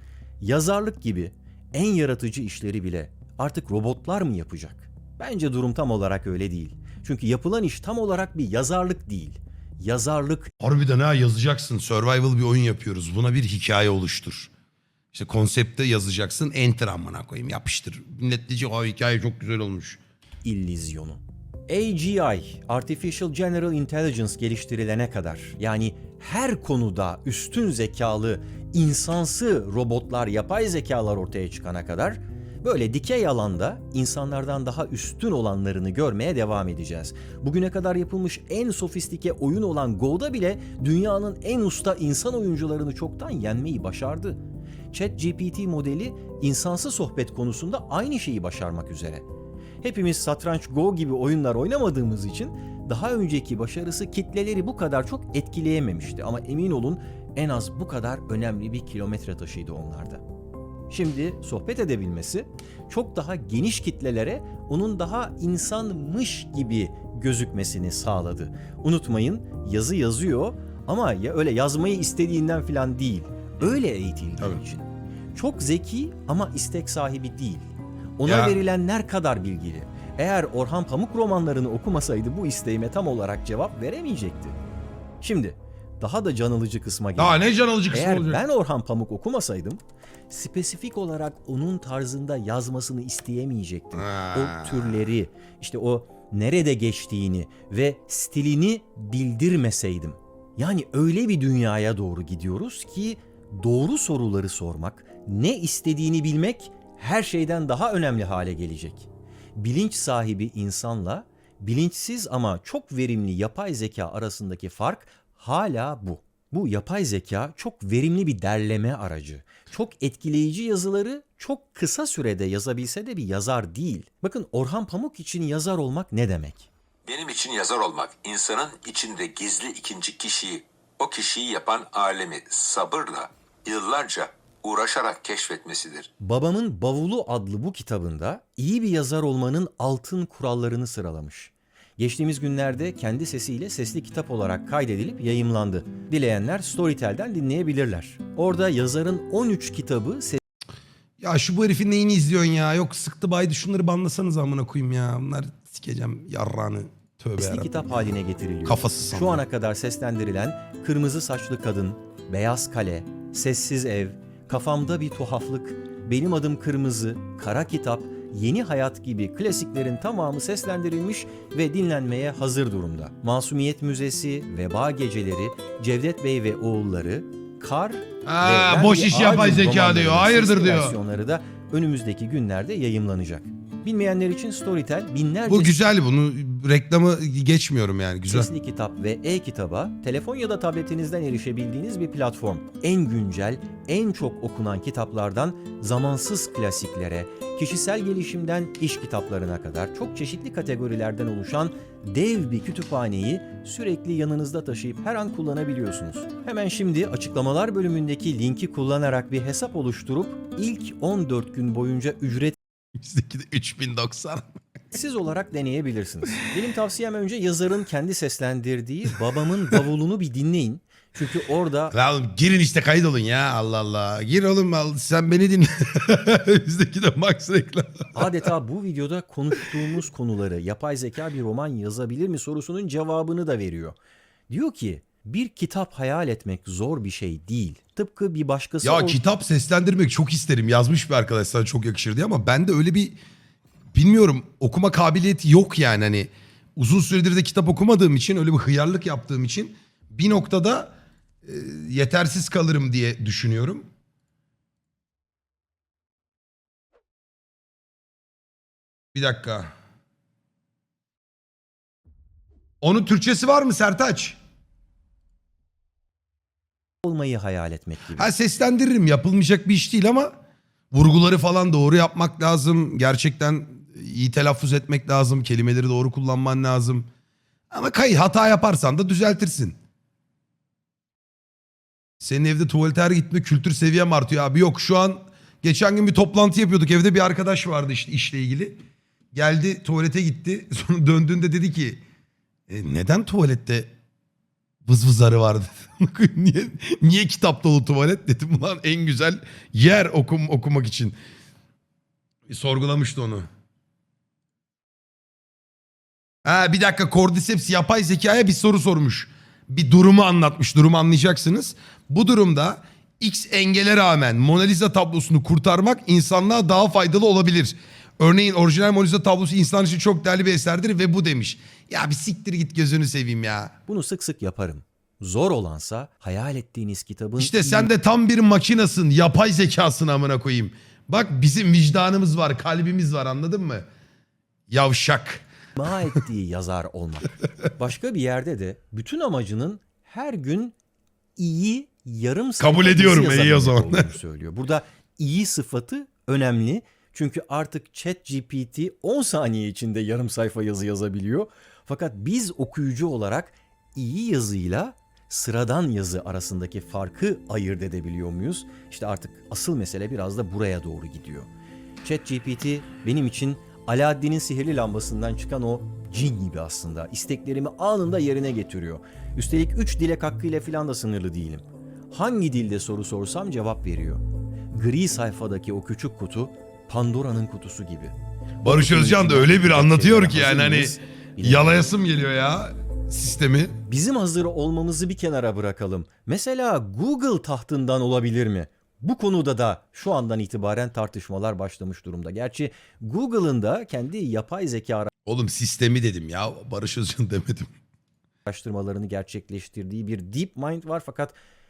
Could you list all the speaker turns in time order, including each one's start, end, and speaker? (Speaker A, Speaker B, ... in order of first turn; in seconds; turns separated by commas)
Speaker A: 0.4-10.5, Speaker B: 10.6-14.5, Speaker B: 15.1-20.0, Speaker A: 20.4-44.4, Speaker A: 44.9-49.2, Speaker A: 49.8-60.2, Speaker A: 60.9-84.6, Speaker B: 78.2-78.6, Speaker A: 85.2-87.3, Speaker B: 87.2-88.5, Speaker A: 87.9-126.7, Speaker B: 94.0-95.0, Speaker C: 127.1-136.1, Speaker A: 136.2-150.4, Speaker B: 151.2-157.8, Speaker A: 157.4-185.8, Speaker B: 158.7-159.4, Speaker B: 178.2-181.0, Speaker B: 185.5-188.5, Speaker A: 188.3-212.6, Speaker B: 212.9-214.6, Speaker A: 214.9-221.9, Speaker B: 221.9-228.5, Speaker A: 228.1-234.0, Speaker A: 234.5-239.2, Speaker B: 238.8-243.2, Speaker B: 243.9-253.9, Speaker B: 259.1-259.7, Speaker B: 262.8-264.4, Speaker A: 267.0-268.3, Speaker B: 268.1-270.4, Speaker B: 270.9-277.1, Speaker B: 277.7-279.8, Speaker B: 282.2-288.8, Speaker B: 289.3-292.0, Speaker B: 292.7-293.9, Speaker B: 294.9-301.2, Speaker B: 302.5-303.5, Speaker B: 306.4-323.8, Speaker A: 323.9-327.9, Speaker B: 327.4-333.9, Speaker B: 334.7-335.4, Speaker A: 335.8-340.7, Speaker A: 341.4-361.5, Speaker B: 342.6-344.1, Speaker A: 362.0-381.8, Speaker B: 378.6-383.8, Speaker A: 383.9-395.1, Speaker B: 395.3-397.7, Speaker A: 398.5-401.4